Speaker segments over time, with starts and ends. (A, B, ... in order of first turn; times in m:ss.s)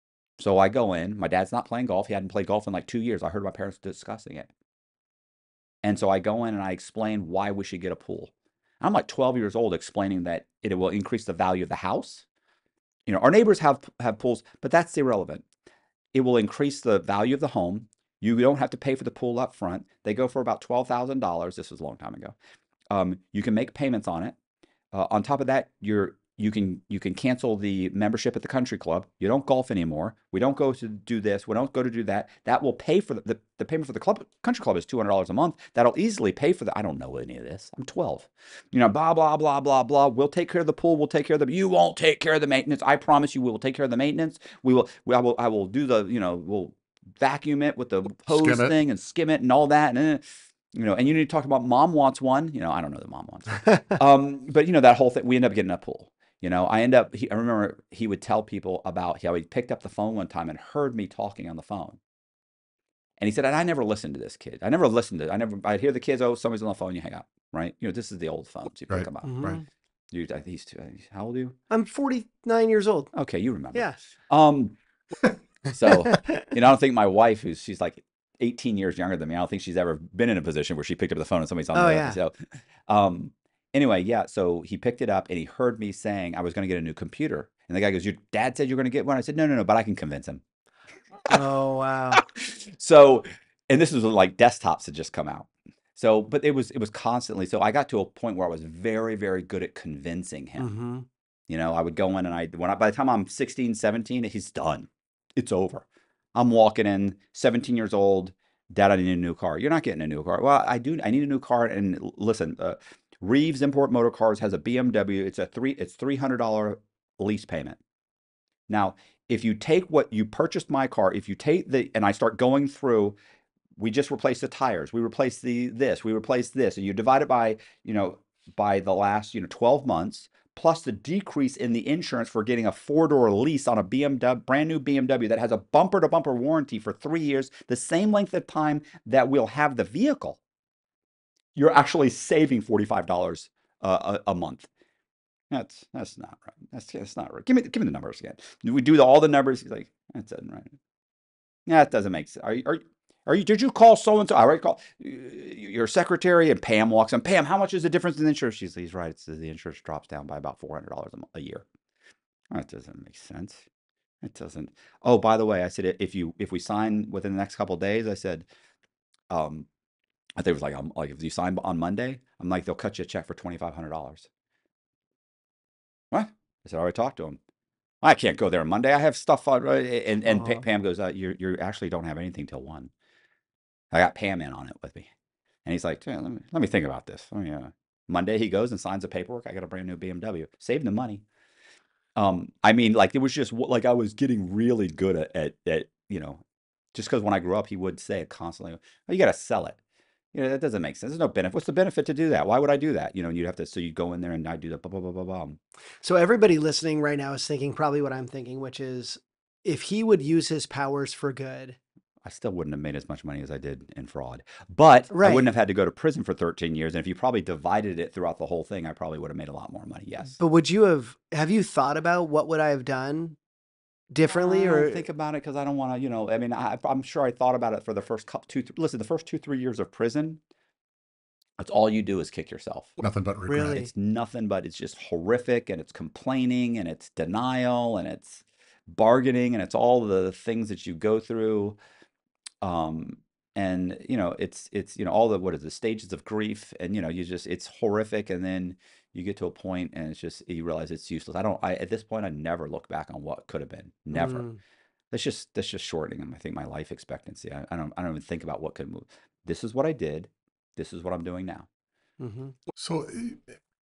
0:00.4-0:04.5 A
0:05.8-0:12.3 A
0:13.1-0:15.4 A
0:16.1-0:22.4 A
0:22.9-0:24.4 A
0:24.9-1:02.0 A
0:48.3-0:48.8 B
1:03.2-1:09.6 A
1:08.9-1:09.6 B
1:09.2-1:09.7 C
1:10.1-1:11.6 A
1:11.7-1:13.1 C
1:13.1-1:14.8 A
1:15.7-1:22.4 A
1:16.1-1:16.4 C
1:21.7-1:22.2 C
1:22.9-1:30.4 A
1:31.3-1:32.2 C
1:32.1-1:40.7 A
1:40.6-1:41.1 C
1:41.5-1:57.8 A
1:58.7-2:03.2 A
2:03.8-2:20.4 A
2:21.6-2:24.7 A
2:25.5-2:30.8 A
2:31.7-2:41.7 A
2:42.5-2:43.6 A
2:44.2-2:48.5 A
2:49.3-2:49.7 A
2:50.4-2:54.3 A
2:56.1-2:57.4 A
2:58.0-3:02.9 A
3:00.3-3:00.6 C
3:03.9-3:05.1 A
3:05.6-3:11.2 A
3:12.2-3:16.4 A
3:16.9-3:19.8 A
3:20.3-3:25.6 A
3:26.0-3:31.8 C
3:32.2-3:40.4 A
3:35.1-3:35.5 C
3:40.4-3:43.4 C
3:44.1-3:45.0 C
3:44.3-3:50.4 A
3:51.6-3:52.9 A
3:53.0-3:53.8 B
3:53.5-3:53.9 C
3:53.7-4:01.8 A
4:02.6-4:14.5 A
4:14.1-4:14.6 C
4:15.1-4:21.7 A
4:22.2-4:22.6 C
4:22.8-4:23.6 B